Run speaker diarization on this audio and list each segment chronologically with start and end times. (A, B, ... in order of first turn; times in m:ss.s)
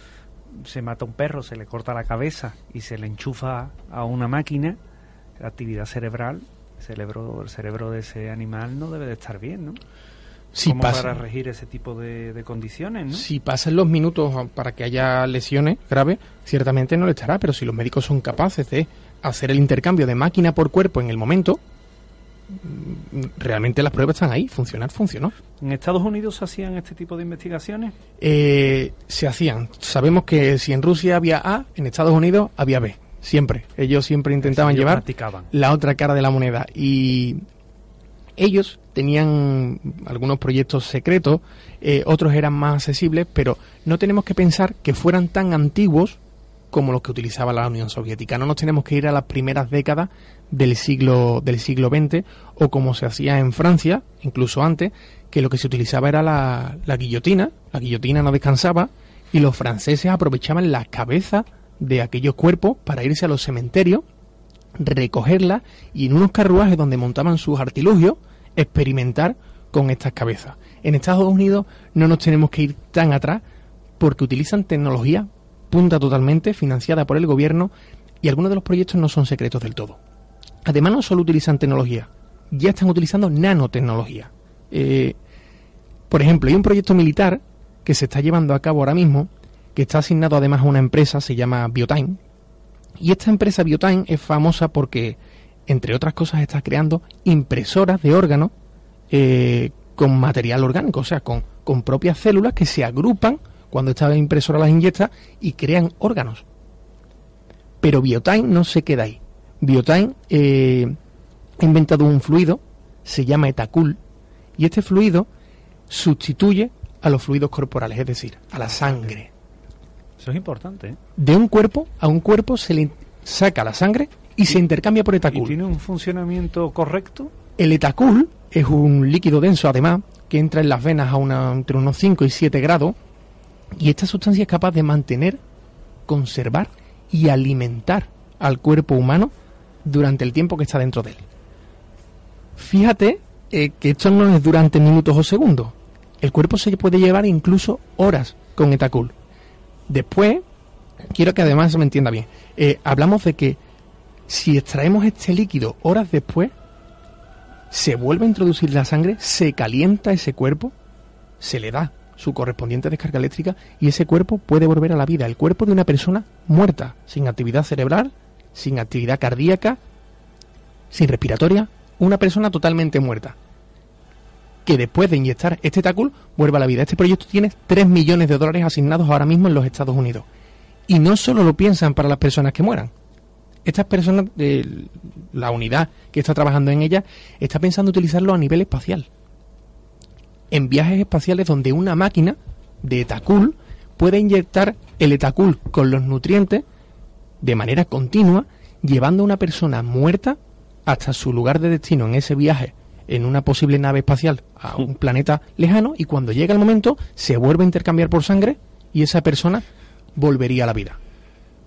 0:00.5-0:04.8 A
0:05.4-0:09.8 A
0:10.5-0:11.2 B
0:10.6-0:13.3 A
0:13.1-0:21.6 B
0:22.5-0:25.3 B
0:25.6-0:28.0 A
0:28.2-0:37.4 B
0:34.4-0:35.5 A
0:38.4-0:46.2 B
0:46.7-1:04.0 B
1:04.8-1:13.4 B
1:14.0-1:20.0 B
1:20.6-1:25.2 B
1:26.1-1:32.2 B
1:33.0-1:38.5 B
1:39.1-1:46.4 B
1:47.8-1:51.0 B
1:51.6-1:54.0 B
1:54.6-1:55.3 B
1:55.9-1:59.3 B
2:00.2-2:01.0 A
2:01.2-2:05.6 B
2:05.3-2:07.3 A
2:07.6-2:13.0 B
2:13.7-2:15.4 B
2:16.1-2:19.3 B
2:19.8-2:21.2 B
2:22.6-2:29.1 B
2:29.9-2:30.4 B
2:31.0-2:33.6 B
2:34.3-2:36.5 B
2:37.7-2:40.7 B
2:41.4-2:49.8 B
2:50.9-2:53.4 B
2:54.6-3:00.3 B
3:00.9-3:02.9 B
3:03.6-3:09.1 B
3:10.5-3:16.6 B
3:17.4-3:31.0 B